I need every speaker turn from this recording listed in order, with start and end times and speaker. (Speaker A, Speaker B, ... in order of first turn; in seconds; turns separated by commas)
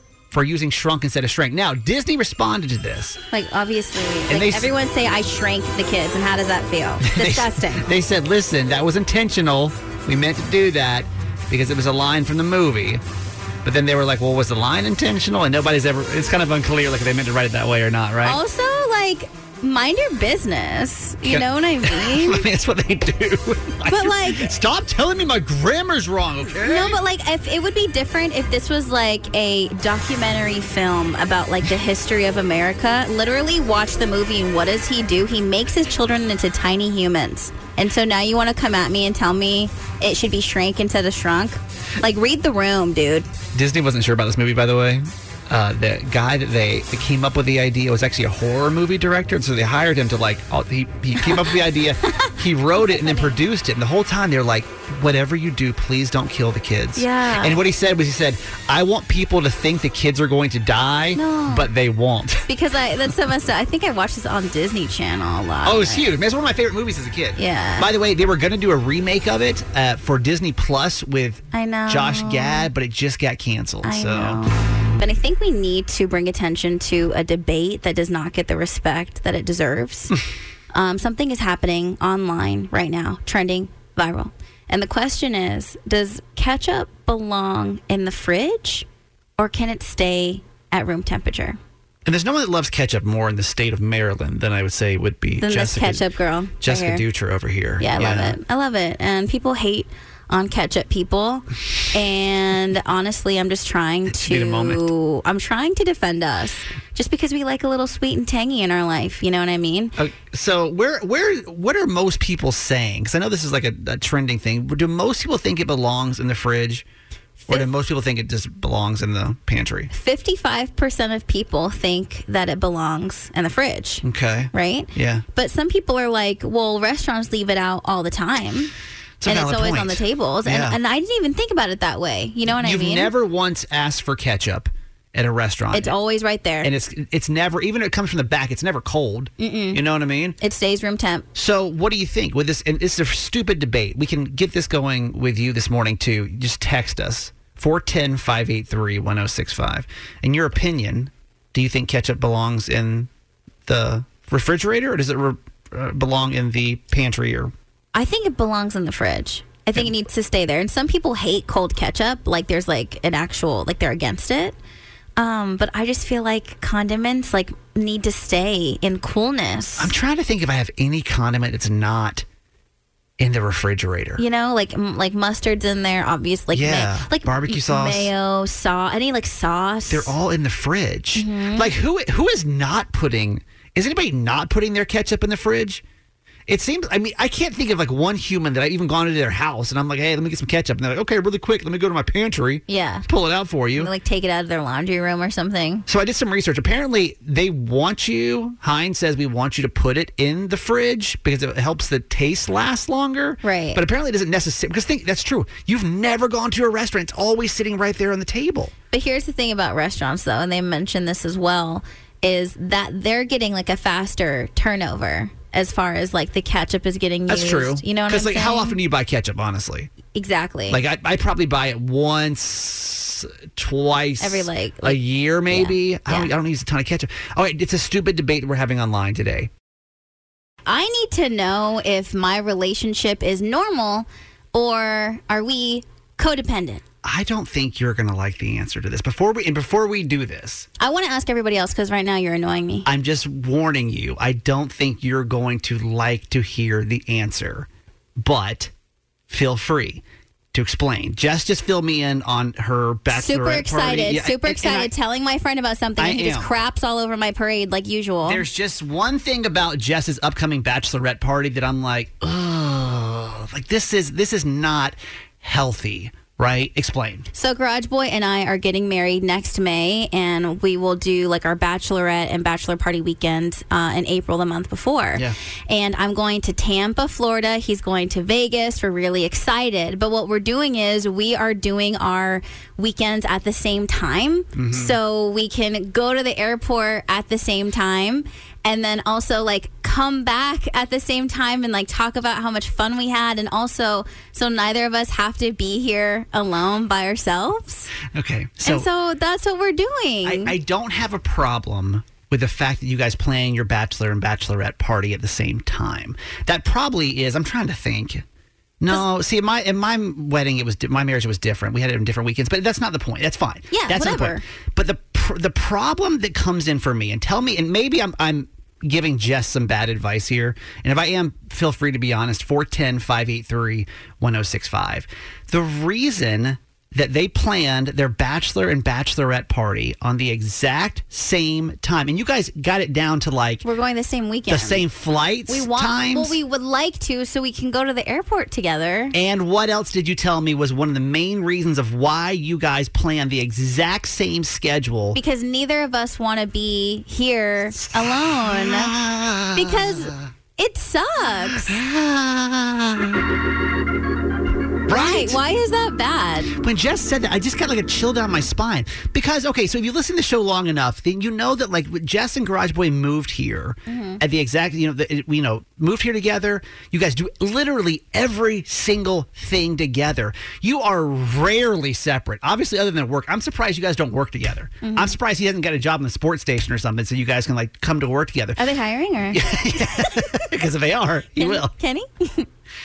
Speaker A: 0.3-3.2, Speaker B: 3.3-7.8, Speaker A: 4.3-4.7, Speaker A: 7.0-13.0, Speaker A: 13.6-18.4, Speaker B: 18.2-22.4, Speaker A: 21.2-27.0, Speaker B: 23.9-24.6, Speaker B: 26.6-43.3, Speaker A: 43.5-62.5, Speaker B: 51.2-51.5, Speaker B: 52.2-53.4, Speaker B: 56.9-57.6, Speaker B: 61.1-61.7, Speaker B: 62.5-66.1, Speaker A: 65.6-74.4, Speaker B: 67.4-67.9, Speaker B: 71.5-72.7, Speaker B: 73.8-80.1, Speaker B: 80.7-88.8, Speaker B: 89.4-91.6, Speaker A: 92.0-96.1, Speaker B: 95.4-97.0, Speaker A: 96.6-98.4, Speaker B: 97.8-109.9, Speaker A: 104.1-104.9, Speaker A: 110.0-116.8, Speaker A: 117.5-119.9, Speaker B: 119.9-128.7, Speaker A: 124.0-125.2, Speaker A: 129.2-130.8, Speaker B: 129.2-133.1, Speaker A: 132.5-135.9, Speaker B: 135.7-136.7, Speaker A: 136.6-140.4, Speaker B: 139.4-139.8, Speaker B: 140.4-141.3, Speaker A: 141.3-153.1, Speaker A: 153.7-157.5, Speaker B: 157.9-164.6, Speaker B: 165.2-169.9, Speaker A: 169.8-172.2, Speaker A: 173.2-174.2, Speaker B: 174.2-180.1, Speaker A: 176.5-178.1, Speaker A: 179.9-185.8, Speaker B: 181.1-181.7, Speaker A: 186.5-193.9, Speaker B: 192.7-193.1, Speaker B: 193.8-195.8, Speaker A: 195.9-208.7, Speaker B: 203.4-203.8, Speaker B: 208.9-218.8, Speaker A: 217.3-219.9, Speaker B: 220.1-220.8, Speaker A: 220.7-229.5, Speaker B: 224.2-225.0, Speaker B: 225.5-226.3, Speaker B: 230.7-236.8, Speaker A: 237.0-240.7, Speaker B: 240.8-242.9, Speaker A: 242.8-248.7, Speaker A: 249.3-254.9, Speaker B: 253.1-258.4, Speaker A: 256.0-256.5, Speaker A: 258.2-267.3, Speaker B: 267.3-297.9, Speaker A: 284.5-285.0, Speaker A: 298.1-298.9, Speaker B: 298.6-300.6, Speaker A: 300.2-308.2, Speaker A: 308.8-333.6, Speaker B: 313.7-314.4, Speaker B: 333.6-334.8, Speaker A: 334.5-336.4, Speaker B: 335.5-339.1, Speaker A: 339.1-345.2, Speaker B: 345.1-348.9, Speaker A: 347.8-350.3, Speaker B: 349.5-351.7, Speaker A: 351.4-353.2, Speaker A: 354.9-355.4, Speaker B: 354.9-356.5, Speaker A: 356.5-378.6, Speaker B: 363.9-364.2, Speaker B: 374.8-375.2, Speaker B: 378.6-380.4, Speaker A: 379.3-381.7, Speaker B: 381.4-382.5